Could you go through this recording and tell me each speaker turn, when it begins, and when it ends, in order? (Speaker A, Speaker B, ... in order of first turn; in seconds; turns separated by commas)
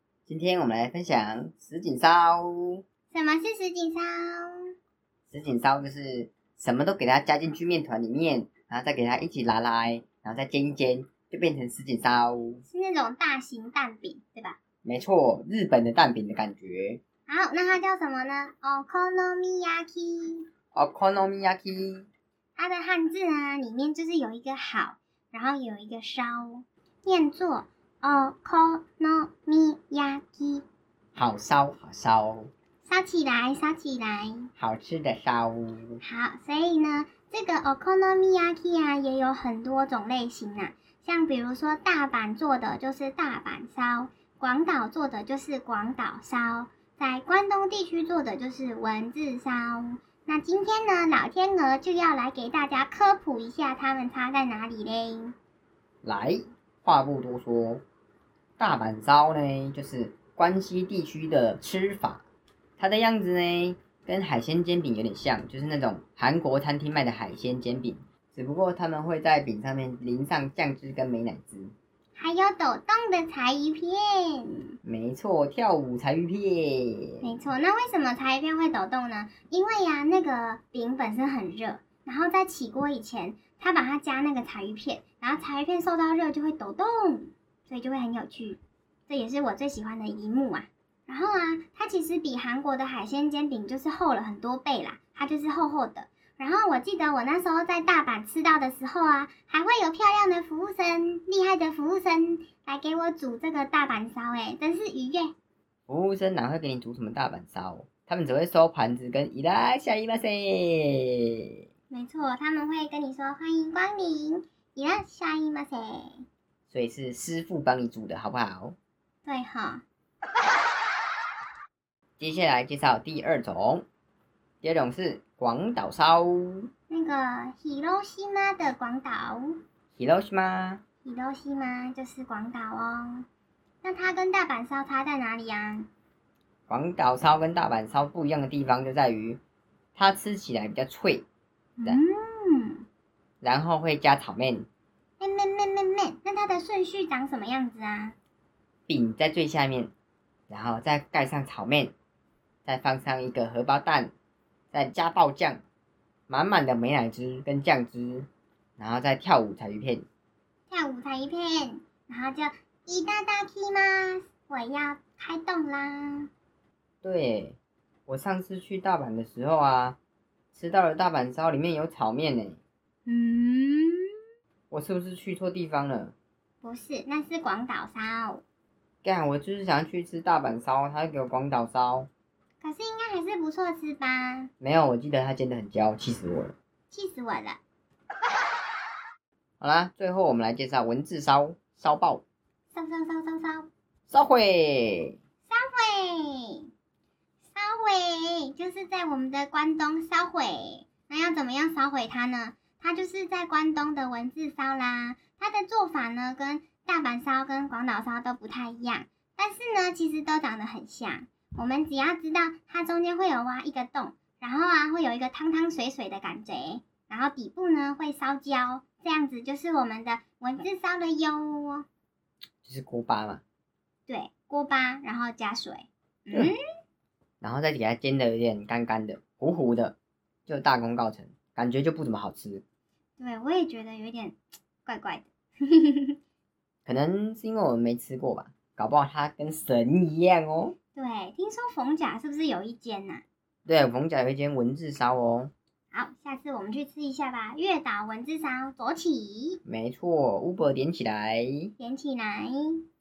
Speaker A: 0.3-2.8, Speaker B: 3.1-4.6, Speaker A: 5.3-12.6, Speaker B: 12.7-14.6, Speaker A: 14.8-17.0, Speaker B: 17.3-20.4, Speaker A: 20.7-22.1, Speaker B: 22.6-30.6, Speaker A: 31.1-32.5, Speaker B: 32.9-34.5, Speaker A: 34.6-36.0, Speaker B: 36.0-55.4, Speaker A: 56.0-57.8, Speaker A: 58.6-62.2, Speaker A: 62.8-71.7, Speaker B: 72.2-74.7, Speaker A: 74.8-77.3, Speaker B: 77.2-105.3, Speaker A: 105.9-111.2, Speaker B: 111.9-116.2, Speaker A: 116.7-118.8, Speaker B: 119.2-119.8, Speaker A: 122.2-123.8, Speaker A: 124.6-126.7, Speaker B: 126.9-129.5, Speaker A: 129.9-130.8, Speaker B: 131.0-133.3, Speaker B: 133.8-135.9, Speaker A: 136.7-139.4, Speaker A: 140.0-141.3, Speaker B: 141.8-142.8, Speaker A: 143.4-144.7, Speaker B: 145.2-148.2, Speaker A: 148.9-149.9, Speaker A: 150.5-151.9, Speaker A: 152.7-154.1, Speaker A: 154.7-155.6, Speaker A: 156.3-160.1, Speaker B: 160.7-166.3, Speaker A: 167.0-167.6, Speaker A: 168.1-170.0, Speaker A: 170.5-172.6, Speaker B: 173.1-174.1, Speaker A: 174.7-176.1, Speaker B: 176.6-178.4, Speaker A: 179.0-182.1, Speaker B: 182.6-184.5, Speaker A: 184.6-186.6, Speaker B: 186.9-187.6, Speaker A: 189.6-192.2, Speaker B: 192.7-193.7, Speaker A: 194.1-195.2, Speaker B: 195.5-196.7, Speaker B: 197.5-221.9, Speaker A: 222.6-223.4, Speaker B: 224.1-226.6, Speaker A: 227.4-230.0, Speaker A: 230.5-232.6, Speaker B: 233.2-236.2, Speaker A: 236.9-240.8, Speaker B: 241.0-243.2, Speaker A: 243.7-245.5, Speaker B: 245.9-249.6, Speaker A: 249.7-251.7, Speaker B: 251.8-252.9